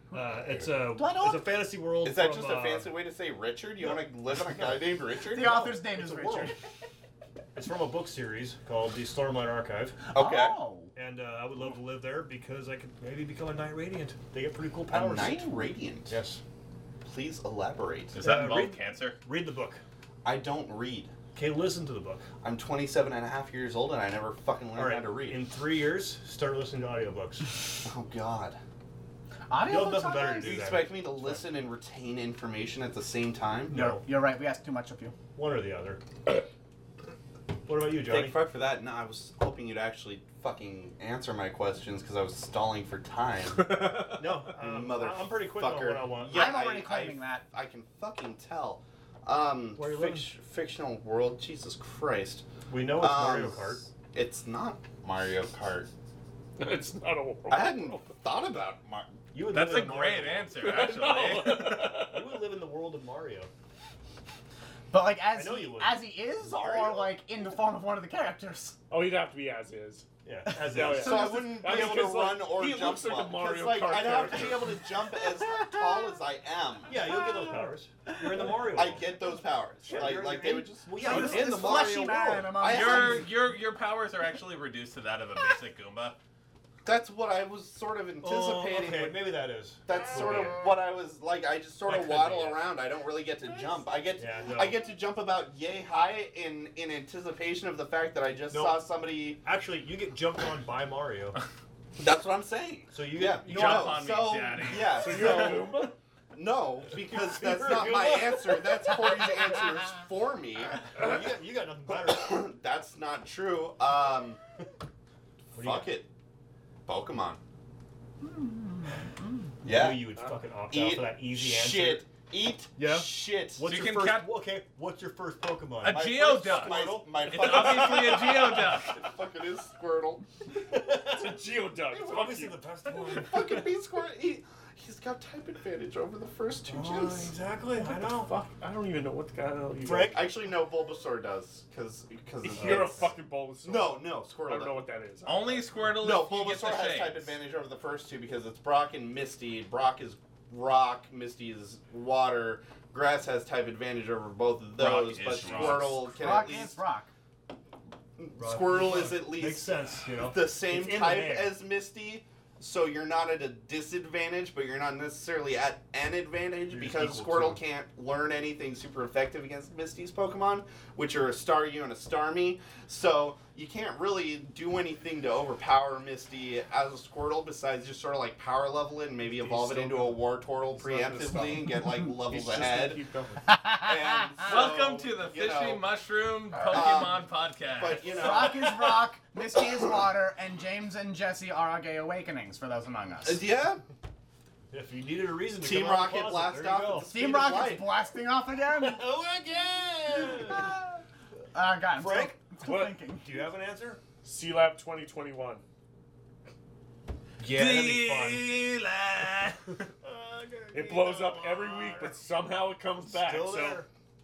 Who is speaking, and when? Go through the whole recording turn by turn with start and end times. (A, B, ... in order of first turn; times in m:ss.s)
0:00.1-0:01.5 A
0:00.1-0:02.9 B
0:02.0-0:05.7 C
0:03.8-0:06.6 B
0:05.3-0:06.6 A
0:07.6-0:10.0 B
0:10.1-0:10.9 A
0:10.1-0:10.6 C
0:11.0-0:16.4 B
0:14.9-0:16.2 C
0:17.0-0:18.4 C
0:18.1-0:19.2 D
0:18.2-0:19.8 B
0:20.2-0:21.1 C
0:21.3-0:22.3 B
0:22.4-0:25.4 C
0:24.8-0:27.5 B
0:27.8-0:28.6 C
0:29.5-0:30.7 A
0:29.6-0:31.5 B
0:30.4-0:33.8 C
0:33.7-0:34.0 B
0:33.7-0:35.1 A
0:35.4-0:36.0 B
0:37.7-0:38.4 B
0:38.0-0:43.9 C
0:43.6-0:44.3 E
0:44.2-0:46.4 B
0:44.6-0:55.9 C
0:46.3-0:47.4 A
0:49.8-0:50.3 B
0:52.7-0:53.9 B
0:56.6-0:58.1 E
0:57.5-0:59.1 C
0:59.3-1:00.6 B
0:59.5-1:02.0 D
1:00.6-1:02.4 E
1:02.0-1:03.5 B
1:04.9-1:08.8 A
1:05.3-1:06.0 B
1:06.5-1:07.0 C
1:08.9-1:10.1 E
1:10.2-1:12.0 B
1:10.7-1:14.8 E
1:10.9-1:17.0 C
1:15.4-1:15.8 A
1:16.9-1:19.1 B
1:17.1-1:18.6 A
1:18.7-1:23.3 C
1:19.8-1:22.5 B
1:21.0-1:23.3 A
1:22.7-1:26.2 D
1:26.8-1:29.4 C
1:28.2-1:30.6 B
1:29.9-1:39.4 C
1:31.9-1:32.7 B
1:34.2-1:34.8 B
1:38.5-1:41.4 B
1:42.0-1:45.8 C
1:42.9-1:44.3 B
1:43.5-1:45.3 D
1:44.9-1:45.9 E
1:45.3-1:45.6 B
1:46.3-1:50.8 C
1:46.9-1:48.8 B
1:50.9-1:52.4 B
1:51.9-1:54.4 C
1:55.5-1:55.9 B
1:55.5-1:56.1 C
1:56.9-1:57.4 C
1:58.2-1:59.5 A
1:59.6-2:00.2 C
1:59.6-2:02.0 B
2:00.7-2:03.7 C
2:02.8-2:07.9 B
2:03.7-2:04.3 D
2:05.8-2:09.0 D
2:05.9-2:10.2 C
2:10.6-2:11.4 B
2:11.0-2:12.6 E
2:11.9-2:13.7 B
2:13.0-2:17.3 C
2:16.7-2:18.3 B
2:17.7-2:20.2 E
2:19.8-2:20.2 B
2:20.1-2:23.0 C
2:22.4-2:25.7 E
2:22.6-2:23.1 B
2:23.6-2:24.7 C
2:25.2-2:27.3 D
2:26.0-2:36.8 C
2:34.8-2:36.3 D
2:36.1-2:37.1 A
2:38.2-3:03.0 C
2:38.4-2:41.5 B
2:46.7-2:47.6 B
2:59.4-3:00.2 E
3:00.8-3:03.5 E
3:03.5-3:04.4 A
3:03.8-3:05.8 C
3:04.5-3:08.5 D
3:06.6-3:09.0 C
3:08.1-3:13.4 A
3:13.2-3:13.8 C
3:14.7-3:17.1 B
3:15.6-3:17.9 C
3:17.1-3:19.0 A
3:18.7-3:20.8 B
3:20.4-3:21.0 A
3:21.5-3:23.3 A
3:21.9-3:24.0 B
3:22.6-3:23.0 E
3:24.2-3:25.6 E
3:27.4-3:28.5 B
3:27.5-3:29.8 D
3:30.0-3:32.2 B
3:30.7-3:33.8 E
3:33.0-3:33.9 B